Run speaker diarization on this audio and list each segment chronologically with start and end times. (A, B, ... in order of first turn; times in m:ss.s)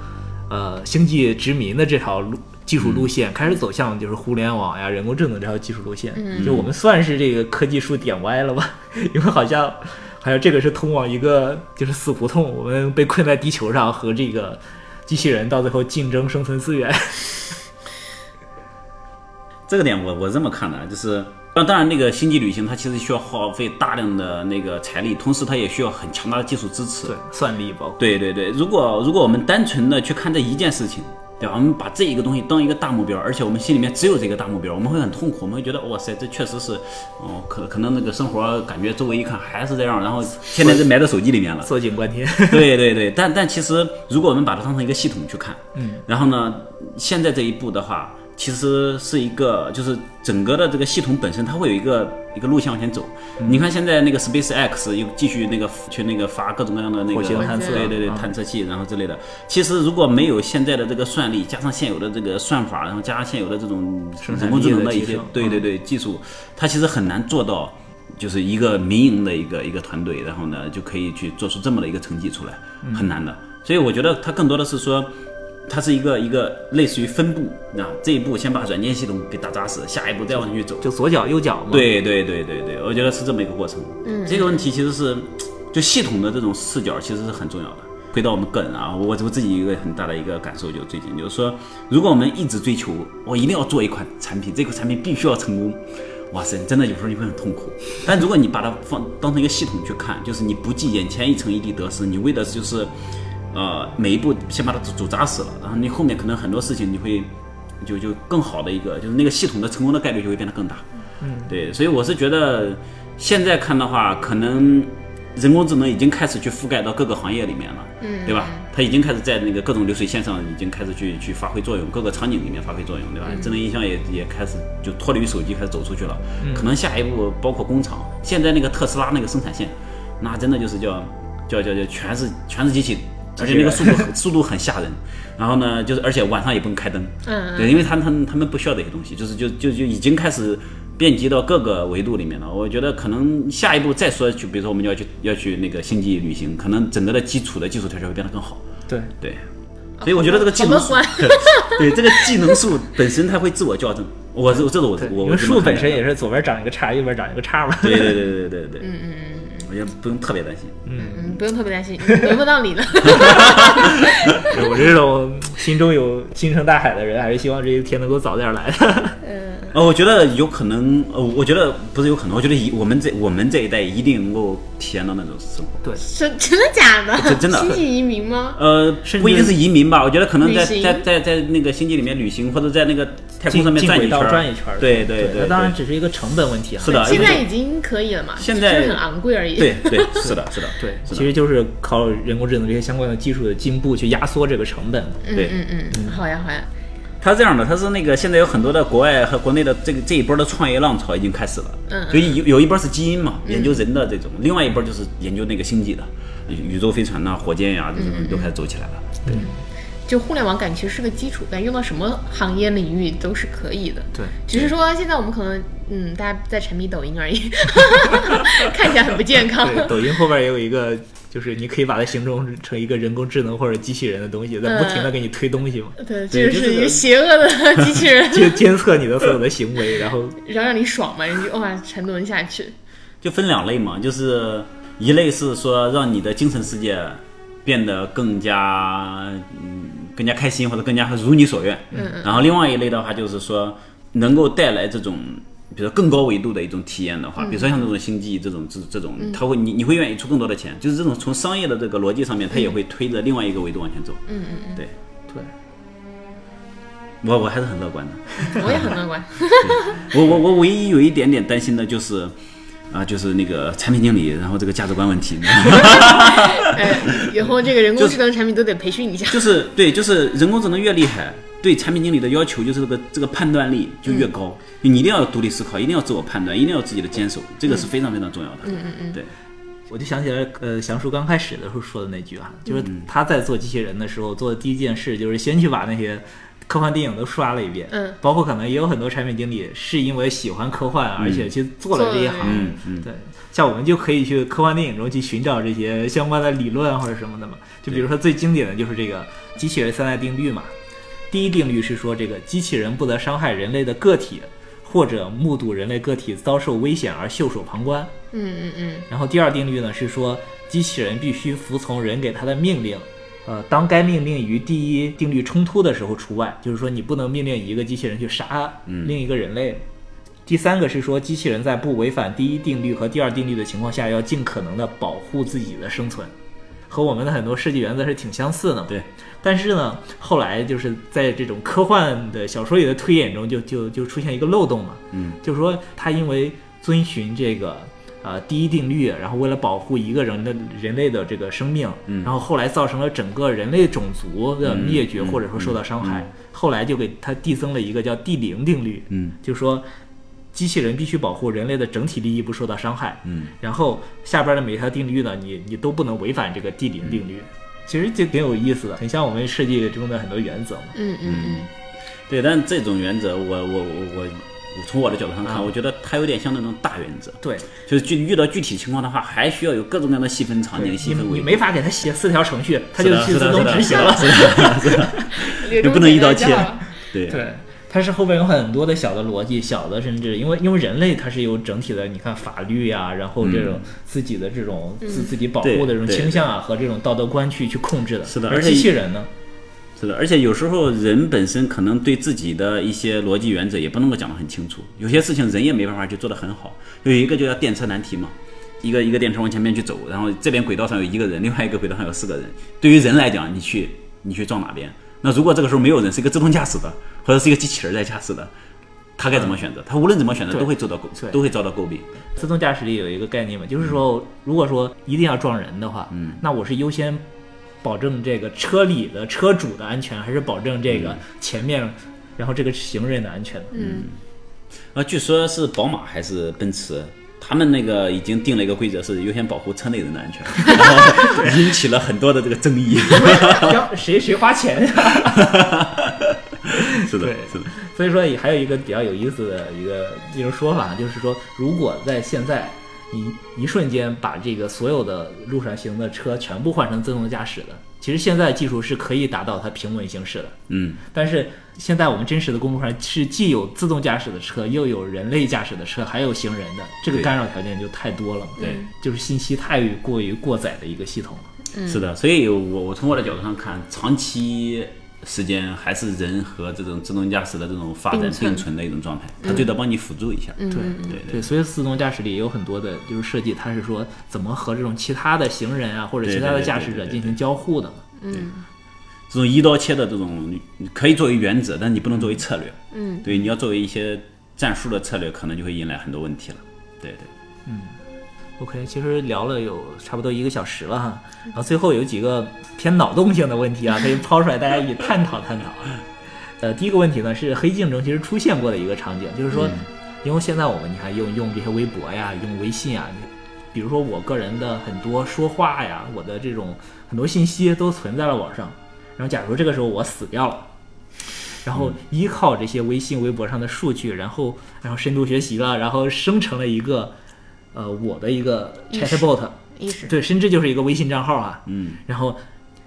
0:00.5-0:17.6 A
0:02.8-0:03.1 B
0:06.1-0:06.5 C
0:06.4-0:06.7 B
0:19.7-0:27.2 B
0:27.0-0:28.0 A
0:28.0-0:41.7 B
0:40.6-0:40.8 A
0:41.6-0:42.7 A
0:42.5-1:15.1 B
0:45.7-0:46.0 A
0:53.4-0:53.6 A
0:57.1-0:58.3 A
0:57.4-0:57.9 C
1:04.2-1:05.6 A
1:12.8-1:13.1 A
1:15.7-1:20.9 B
1:20.8-1:21.9 A
1:21.7-1:42.9 B
1:24.0-1:24.7 C
1:43.5-1:47.3 B
1:47.8-1:50.9 B
1:51.2-1:51.5 A
1:51.4-2:28.6 B
1:58.0-1:58.6 C
2:03.2-2:03.6 C
2:06.4-2:06.7 A
2:13.4-2:14.1 A
2:17.2-2:17.9 C
2:29.2-2:29.4 B
2:30.0-2:32.5 C
2:30.0-2:36.0 B
2:34.5-2:38.2 A
2:37.8-2:38.9 B
2:38.8-2:39.7 C
2:39.6-2:40.9 B
2:40.8-2:41.2 A
2:41.0-2:44.5 C
2:43.1-2:43.8 B
2:44.4-2:49.2 A
2:49.2-2:49.7 C
2:49.7-2:55.8 B
2:56.0-2:58.6 C
2:57.2-2:57.8 B
2:58.5-3:05.8 B
2:59.0-2:59.6 A
3:00.4-3:01.0 C
3:03.5-3:07.4 A
3:06.8-3:07.4 B
3:06.8-3:10.3 C
3:08.4-3:09.0 B
3:09.6-3:11.3 B
3:10.2-3:15.3 A
3:15.2-3:16.7 C
3:15.9-3:16.2 A
3:17.2-3:29.4 B
3:21.9-3:22.4 C
3:23.4-3:23.8 C
3:28.0-3:28.5 C
3:29.2-3:29.5 A
3:29.3-3:40.0 C
3:39.6-3:46.0 A
3:44.6-3:45.1 C
3:46.0-3:48.7 C
3:46.3-3:47.0 B
3:48.2-3:50.4 A
3:50.4-3:52.7 C
3:53.2-4:14.2 B
4:01.9-4:02.4 C
4:07.4-4:07.9 C
4:14.3-4:14.8 C
4:17.2-4:18.9 B
4:18.5-4:20.1 C
4:19.6-4:22.3 B
4:22.9-4:27.3 B
4:25.8-4:29.6 C
4:29.3-4:39.3 B
4:38.6-4:39.2 C
4:39.9-5:00.7 A
4:47.9-4:48.2 C
4:51.2-4:51.5 B
4:51.9-4:52.7 C
4:52.4-4:53.1 B
5:01.3-5:08.1 A
5:08.3-5:09.1 C
5:09.1-5:19.8 A
5:18.9-5:19.2 B
5:20.4-5:26.3 A
5:26.9-5:49.8 A
5:35.1-5:35.4 B
5:42.1-5:42.3 B
5:44.6-5:46.3 B
5:49.1-5:49.4 B
5:50.5-6:01.0 A
5:53.2-5:53.5 B
6:00.9-6:01.7 C
6:01.2-6:01.7 B
6:02.3-6:11.7 B
6:07.4-6:07.7 A
6:10.8-6:15.0 A
6:13.0-6:17.4 B
6:13.9-6:14.4 C
6:15.4-6:16.9 C
6:17.3-6:29.3 A
6:23.4-6:23.9 B
6:25.0-6:25.3 C
6:25.6-6:26.4 B
6:28.2-6:28.9 B
6:30.0-6:48.5 B
6:49.2-6:52.1 B
6:52.4-6:57.2 A
6:56.1-6:56.4 B
6:57.8-7:03.8 A
7:00.9-7:01.2 B
7:03.7-7:04.0 C
7:03.7-7:04.2 B
7:04.9-7:13.8 B
7:13.2-7:15.7 A
7:15.3-7:17.7 B
7:16.7-7:41.5 A
7:30.7-7:31.0 B
7:38.6-7:38.8 C
7:41.8-7:51.4 B
7:48.1-7:48.6 C
7:49.4-7:49.7 C
7:50.6-7:51.2 C
7:50.7-7:58.0 A
7:56.2-7:57.4 B
7:58.2-7:58.6 C
7:59.3-8:07.3 B
8:02.2-8:02.4 A
8:02.9-8:03.2 C
8:07.6-8:08.0 A
8:08.6-8:16.0 A
8:16.6-8:30.7 A
8:19.6-8:19.8 B
8:31.6-8:37.2 A
8:37.7-8:42.4 A
8:38.9-8:40.1 C
8:41.7-8:42.0 B